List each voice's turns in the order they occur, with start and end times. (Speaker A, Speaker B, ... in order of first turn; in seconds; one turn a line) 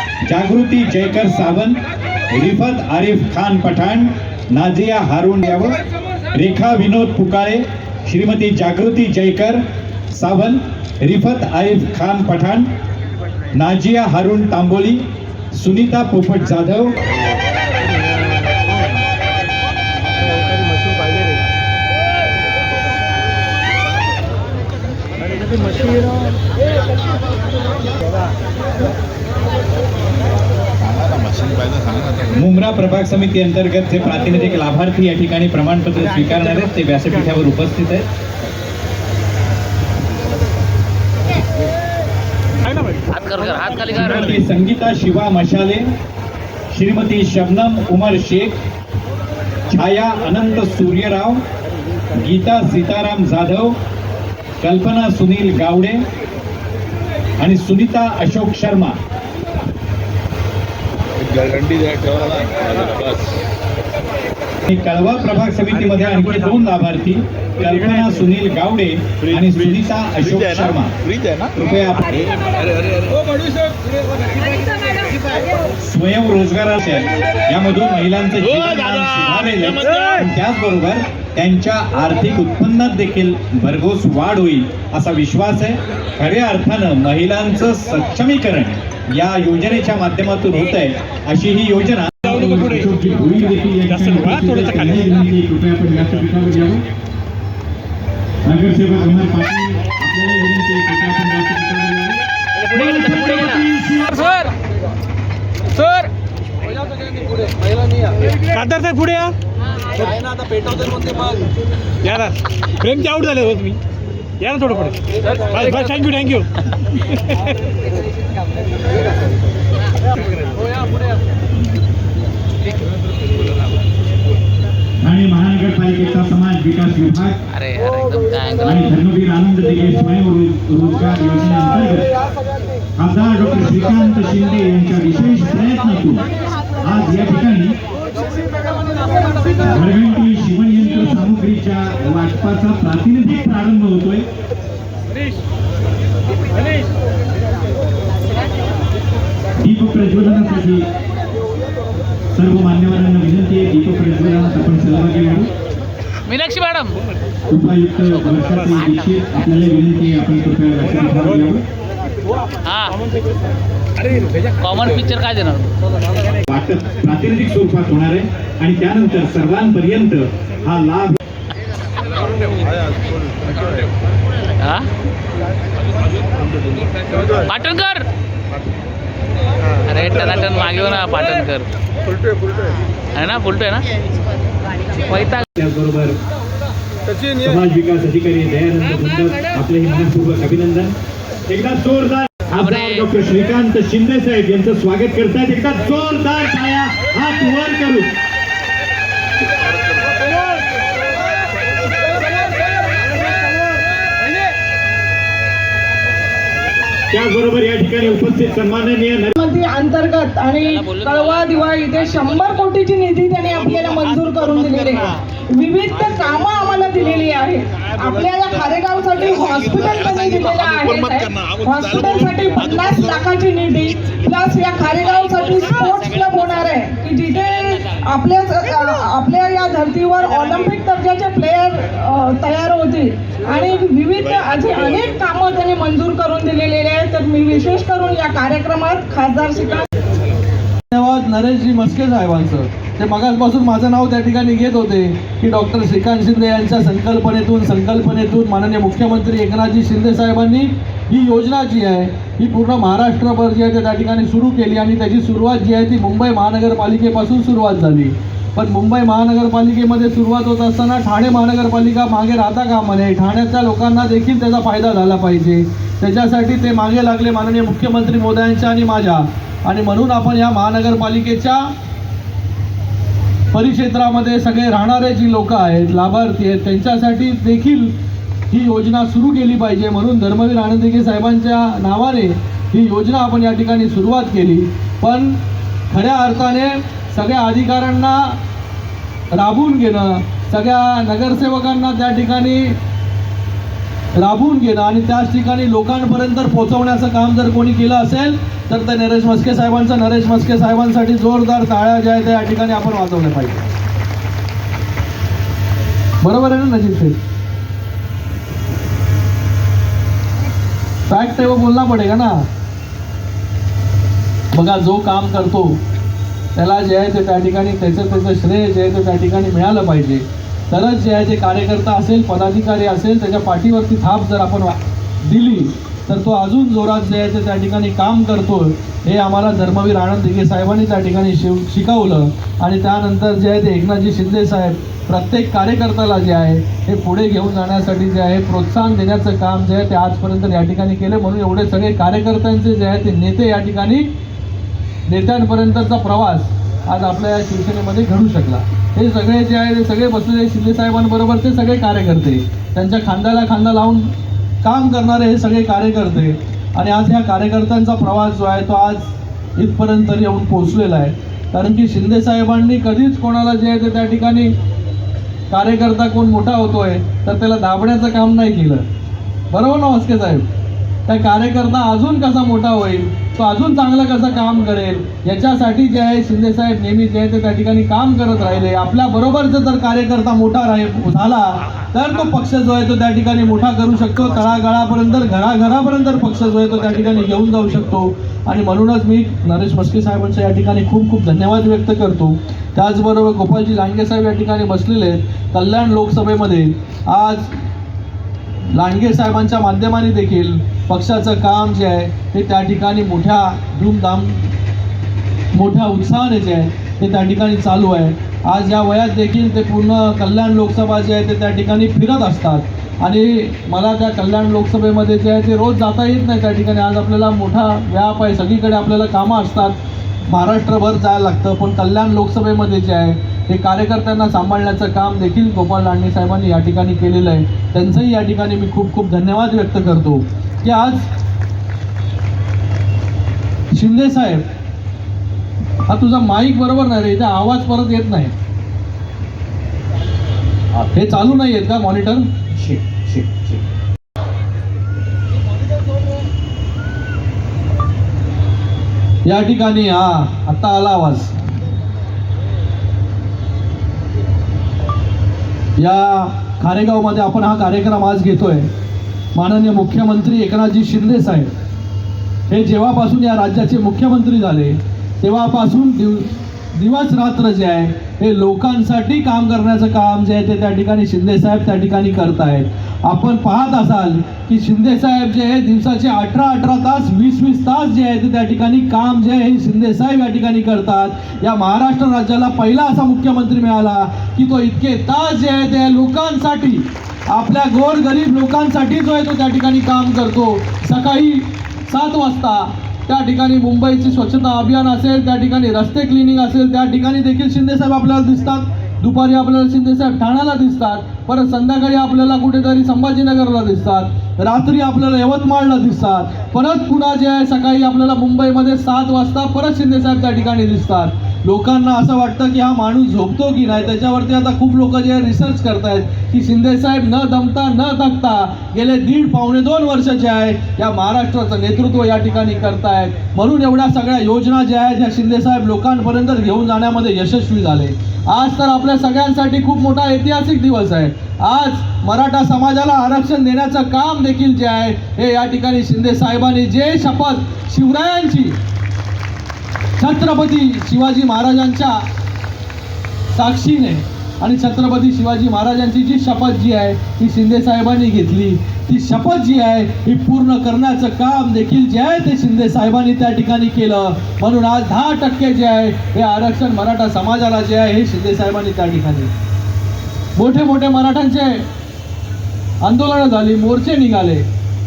Speaker A: 0.2-1.8
Speaker A: 2.3-5.8
Speaker A: 6.3-9.6
Speaker A: 10.1-12.7
Speaker A: 13.5-15.0
Speaker A: 15.5-16.9
Speaker B: 31.2-32.1
Speaker A: 32.3-38.1
Speaker C: 43.1-44.4
Speaker A: 43.9-45.9
Speaker A: 46.7-48.6
Speaker A: 49.7-51.4
Speaker A: 52.1-53.8
Speaker A: 54.6-56.0
Speaker A: 57.4-59.0
Speaker B: 61.2-63.4
Speaker A: 64.7-71.0
Speaker B: 69.2-71.5
Speaker A: 71.5-72.1
Speaker B: 72.1-73.3
Speaker D: 74.4-75.4
Speaker A: 75.8-96.8
Speaker B: 78.6-80.0
Speaker E: 93.9-94.9
Speaker A: 98.4-102.2
Speaker A: 102.7-104.2
Speaker F: 106.6-108.2
Speaker E: 108.5-109.3
Speaker F: 109.9-111.5
Speaker E: 112.0-113.8
Speaker E: 114.4-117.3
Speaker A: 125.0-127.4
Speaker C: 127.5-128.9
Speaker A: 128.6-132.1
Speaker A: 133.0-136.2
Speaker A: 136.8-137.7
Speaker A: 139.6-144.2
Speaker A: 149.6-150.8
Speaker A: 152.3-155.5
Speaker C: 156.3-157.0
Speaker A: 157.5-161.6
Speaker C: 162.6-162.9
Speaker C: 164.6-165.7
Speaker A: 166.5-171.2
Speaker C: 174.6-174.9
Speaker C: 177.4-178.1
Speaker C: 179.8-181.7
Speaker C: 183.1-183.9
Speaker C: 184.9-185.4
Speaker A: 185.6-186.2
Speaker A: 187.4-190.9
Speaker A: 191.5-198.1
Speaker C: 192.6-193.0
Speaker A: 207.1-209.3
Speaker D: 209.4-239.9
Speaker F: 240.9-271.7
Speaker F: 273.5-278.0
Speaker F: 278.5-288.4
Speaker F: 289.3-292.8
Speaker F: 294.1-303.7
Speaker F: 306.2-307.2
Speaker F: 311.1-312.5
Speaker F: 314.5-315.8
Speaker F: 316.5-344.1
Speaker F: 345.1-364.5
Speaker F: 365.5-368.9
Speaker F: 369.5-370.5
Speaker F: 371.1-397.5
Speaker F: 398.7-404.5
Speaker F: 405.5-431.1
Speaker F: 433.7-434.4
Speaker F: 435.9-438.3
Speaker F: 440.9-443.5
Speaker F: 449.2-451.4
Speaker F: 455.8-458.7
Speaker F: 459.3-461.5
Speaker F: 462.5-538.6
Speaker F: 540.0-542.0
Speaker F: 543.3-559.3
Speaker F: 560.3-561.7
Speaker F: 562.8-564.5